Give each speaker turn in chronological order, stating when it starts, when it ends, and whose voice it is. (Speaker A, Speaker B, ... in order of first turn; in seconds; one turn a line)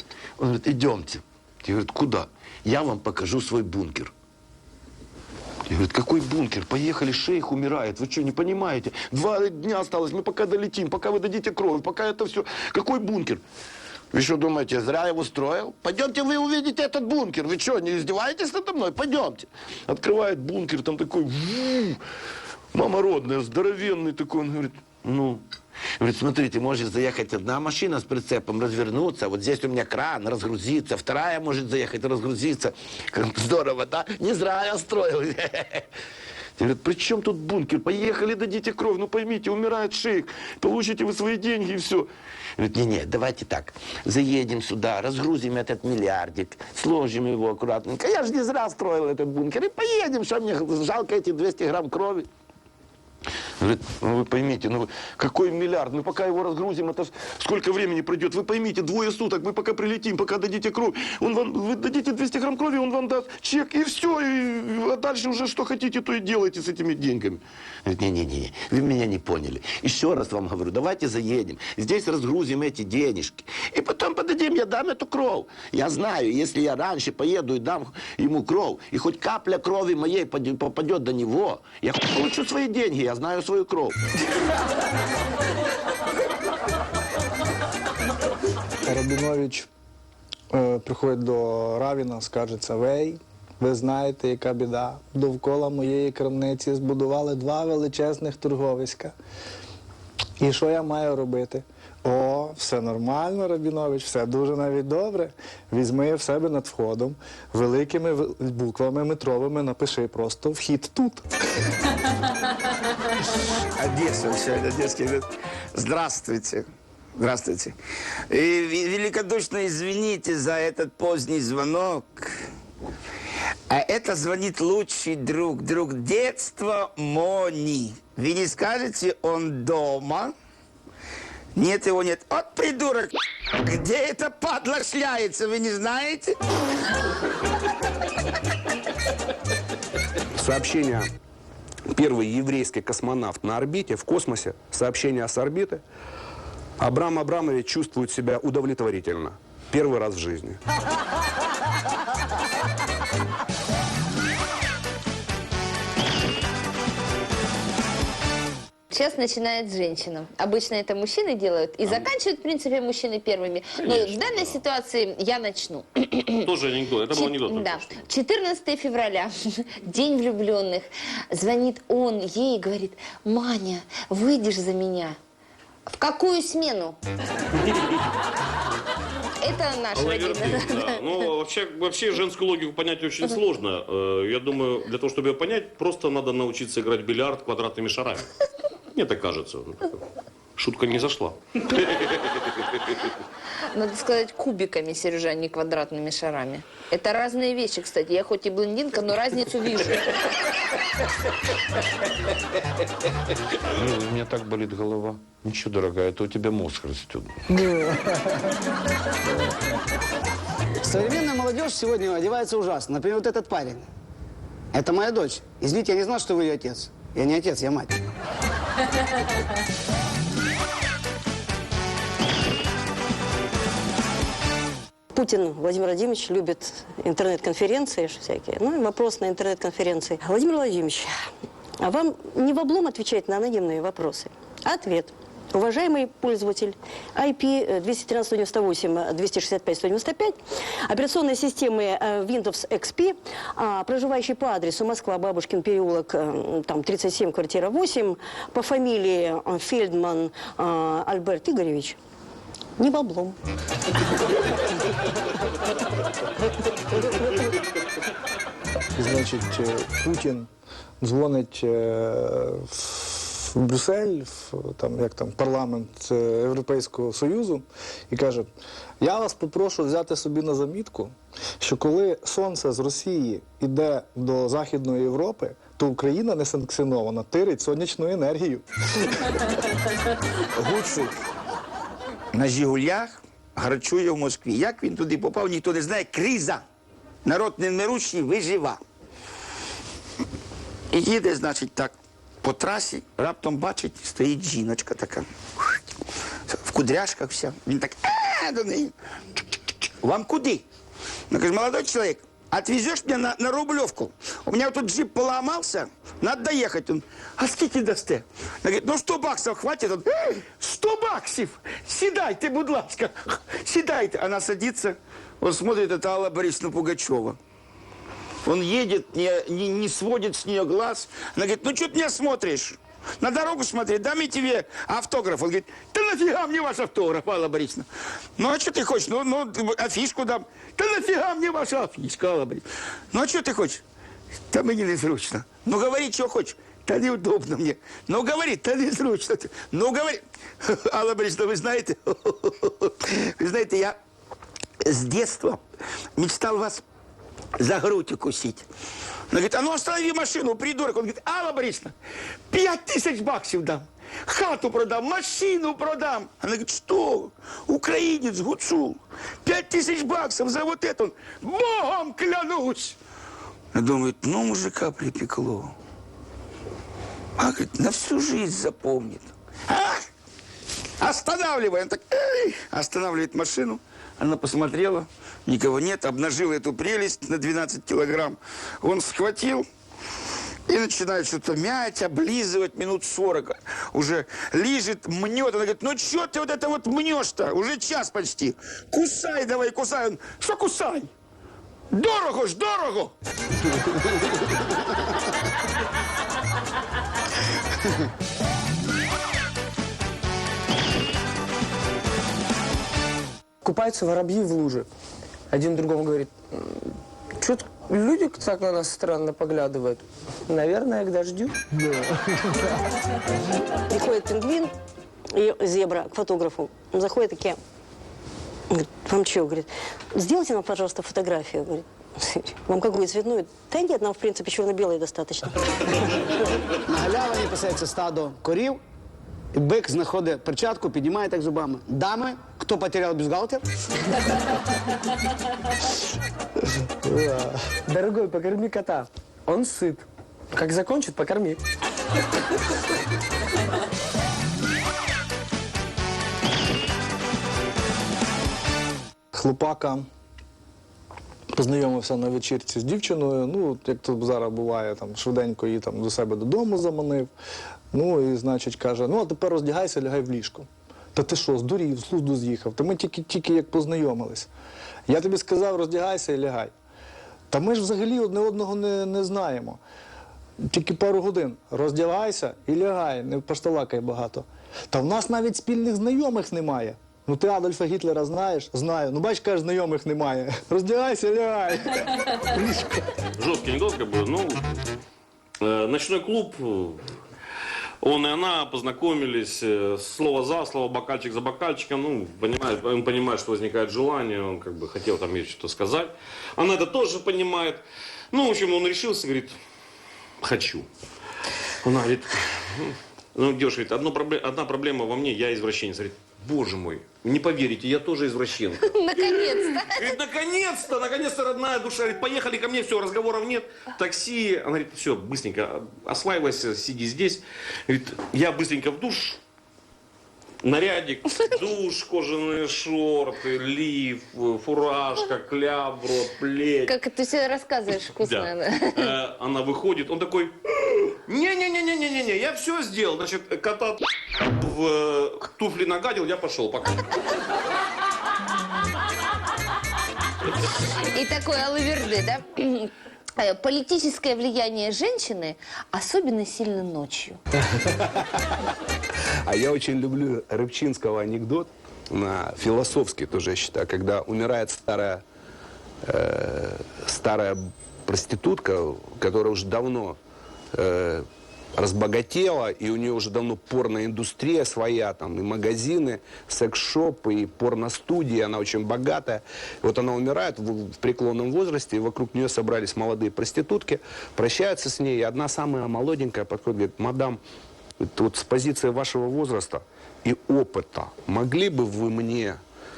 Speaker A: 0.4-4.1
Speaker A: 5.7-13.4
Speaker A: 14.1-22.0
Speaker A: 22.7-25.4
Speaker A: 26.0-35.9
Speaker A: 36.6-52.3
Speaker A: 53.6-84.0
Speaker B: 88.8-89.7
Speaker B: 90.5-99.1
Speaker B: 100.4-111.2
Speaker C: 113.5-117.8
Speaker C: 118.3-122.4
Speaker C: 123.7-130.3
Speaker C: 131.6-136.4
Speaker D: 140.4-141.0
Speaker D: 141.9-145.8
Speaker D: 146.8-150.6
Speaker E: 158.9-166.2
Speaker F: 163.8-164.6
Speaker F: 166.3-168.0
Speaker E: 167.1-175.2
Speaker E: 175.9-177.0
Speaker E: 179.4-180.7
Speaker F: 179.9-188.3
Speaker F: 188.9-190.0
Speaker F: 190.6-192.4
Speaker E: 193.7-200.0
Speaker A: 203.7-207.3
Speaker B: 207.6-208.1
Speaker G: 210.8-213.8
Speaker G: 214.7-218.0
Speaker H: 225.1-231.1
Speaker H: 231.8-252.0
Speaker H: 252.8-253.4
Speaker B: 259.0-260.5
Speaker B: 261.0-268.5
Speaker B: 269.0-279.1
Speaker C: 280.6-281.1
Speaker C: 282.3-286.6
Speaker C: 287.2-288.8
Speaker C: 290.9-295.7
Speaker C: 296.5-298.9
Speaker C: 300.0-300.6
Speaker C: 301.3-317.4
Speaker C: 318.4-333.8
Speaker C: 334.5-344.0
Speaker C: 344.8-345.6
Speaker C: 346.1-346.8
Speaker C: 347.6-348.7
Speaker C: 349.3-351.9
Speaker C: 352.5-363.0
Speaker C: 363.7-365.7
Speaker C: 367.4-370.0
Speaker C: 371.0-379.6
Speaker C: 380.7-391.1
Speaker C: 391.9-393.1
Speaker I: 403.6-404.9
Speaker I: 405.5-406.8
Speaker I: 407.4-411.5
Speaker H: 413.9-414.7
Speaker H: 415.3-417.6
Speaker H: 418.7-425.6
Speaker G: 426.9-428.8
Speaker G: 429.5-433.6
Speaker B: 437.0-437.6
Speaker I: 437.9-441.6
Speaker B: 449.3-450.1
Speaker B: 451.5-457.3
Speaker B: 457.9-464.5
Speaker B: 465.1-466.7
Speaker B: 467.5-469.8
Speaker B: 470.6-483.1
Speaker F: 483.4-484.7
Speaker F: 485.6-487.0
Speaker F: 488.0-499.6
Speaker F: 500.4-500.9
Speaker F: 501.8-519.4
Speaker E: 509.0-509.9
Speaker F: 520.6-527.0
Speaker E: 526.9-528.9
Speaker F: 528.0-537.0
Speaker E: 541.1-547.4
Speaker D: 547.9-548.1
Speaker D: 549.5-555.2
Speaker D: 556.0-560.2
Speaker D: 560.7-561.2
Speaker D: 561.8-577.4
Speaker D: 578.0-582.6